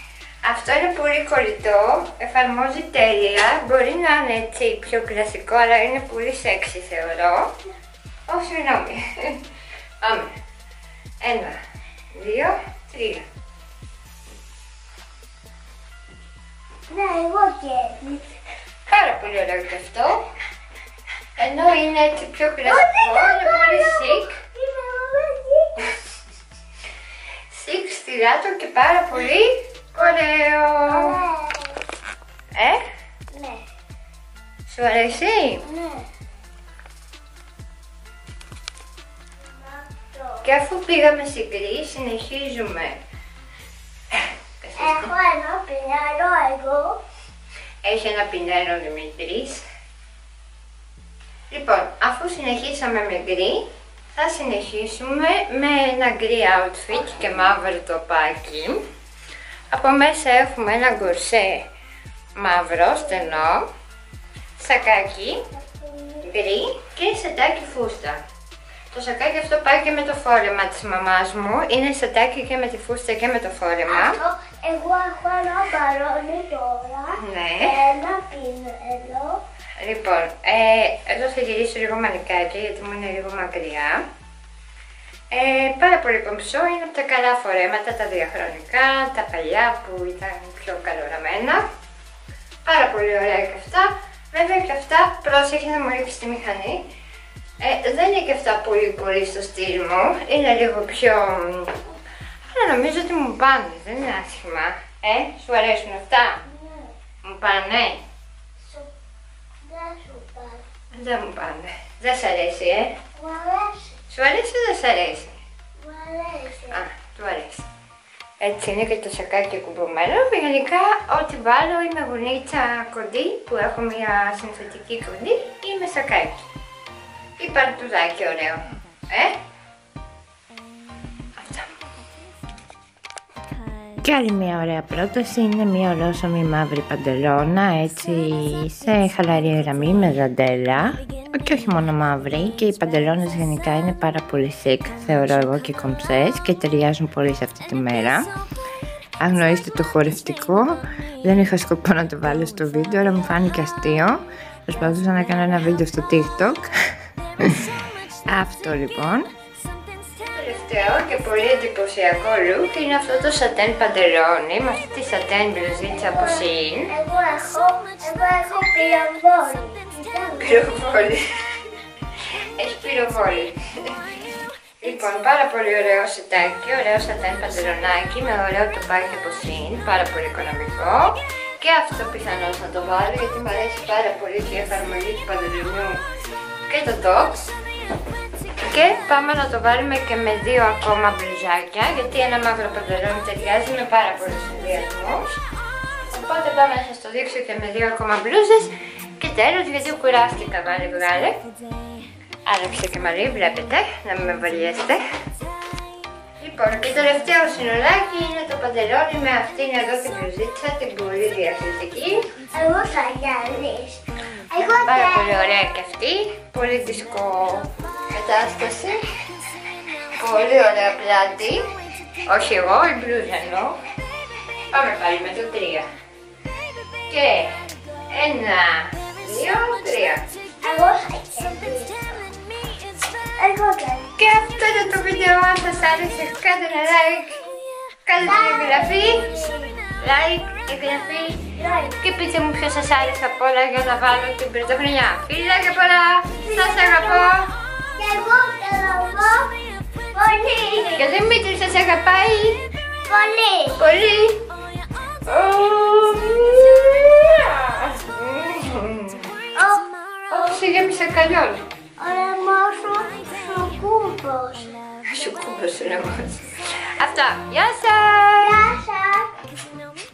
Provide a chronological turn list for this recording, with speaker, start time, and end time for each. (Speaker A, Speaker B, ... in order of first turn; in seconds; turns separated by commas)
Speaker A: 0.4-7.5, Speaker A: 8.3-9.4, Speaker A: 10.0-10.3, Speaker A: 11.2-11.6, Speaker A: 12.1-13.2, Speaker B: 16.9-18.3, Speaker A: 18.9-20.3, Speaker A: 21.4-24.4, Speaker B: 22.6-25.9, Speaker A: 27.5-31.2, Speaker B: 30.9-31.8, Speaker A: 32.6-32.8, Speaker B: 33.3-33.7, Speaker A: 34.7-35.7, Speaker B: 35.6-36.1, Speaker B: 39.5-40.5, Speaker A: 40.4-43.0, Speaker A: 44.6-45.1, Speaker B: 44.8-47.0, Speaker A: 47.8-49.6, Speaker A: 51.5-58.8, Speaker A: 59.7-61.7, Speaker A: 62.4-63.7, Speaker A: 64.6-65.4, Speaker B: 65.5-66.3, Speaker A: 66.2-68.2, Speaker A: 68.9-74.2, Speaker B: 73.9-79.4, Speaker A: 77.2-77.8, Speaker A: 79.8-84.0, Speaker A: 85.3-91.6, Speaker A: 92.6-96.9, Speaker A: 97.6-101.8, Speaker A: 102.5-106.4, Speaker B: 106.5-106.9, Speaker A: 107.2-108.0, Speaker B: 108.6-108.9, Speaker B: 109.6-110.6, Speaker A: 110.9-113.0, Speaker B: 113.2-114.0, Speaker A: 114.1-115.4, Speaker B: 115.8-116.8, Speaker A: 116.7-117.7, Speaker A: 118.4-126.4, Speaker A: 127.4-129.4, Speaker A: 131.4-131.7, Speaker A: 134.0-148.3, Speaker A: 149.2-156.7, Speaker A: 157.4-159.3, Speaker A: 160.3-166.9, Speaker B: 165.9-170.6, Speaker A: 170.4-171.2, Speaker A: 172.6-173.6, Speaker A: 174.8-186.0, Speaker A: 186.7-187.5, Speaker A: 188.7-195.4, Speaker A: 196.1-201.4, Speaker A: 202.5-205.0, Speaker A: 206.4-212.2, Speaker B: 212.5-215.5, Speaker A: 214.8-219.0, Speaker A: 220.1-221.6, Speaker A: 222.2-223.8, Speaker A: 224.7-225.8, Speaker A: 227.1-227.6, Speaker A: 228.1-230.2, Speaker B: 230.6-232.3, Speaker B: 233.4-234.2, Speaker A: 234.2-237.4, Speaker A: 238.1-239.3, Speaker B: 238.2-239.8, Speaker A: 240.0-241.4, Speaker B: 241.6-242.0, Speaker A: 242.0-247.5, Speaker B: 246.4-247.3, Speaker B: 247.9-249.6, Speaker B: 250.1-251.1, Speaker A: 251.0-252.6, Speaker B: 253.1-253.8, Speaker A: 253.8-254.4, Speaker A: 255.3-259.3, Speaker B: 259.5-259.9, Speaker A: 260.3-261.6, Speaker B: 262.0-264.8, Speaker A: 265.1-268.6, Speaker B: 268.4-269.4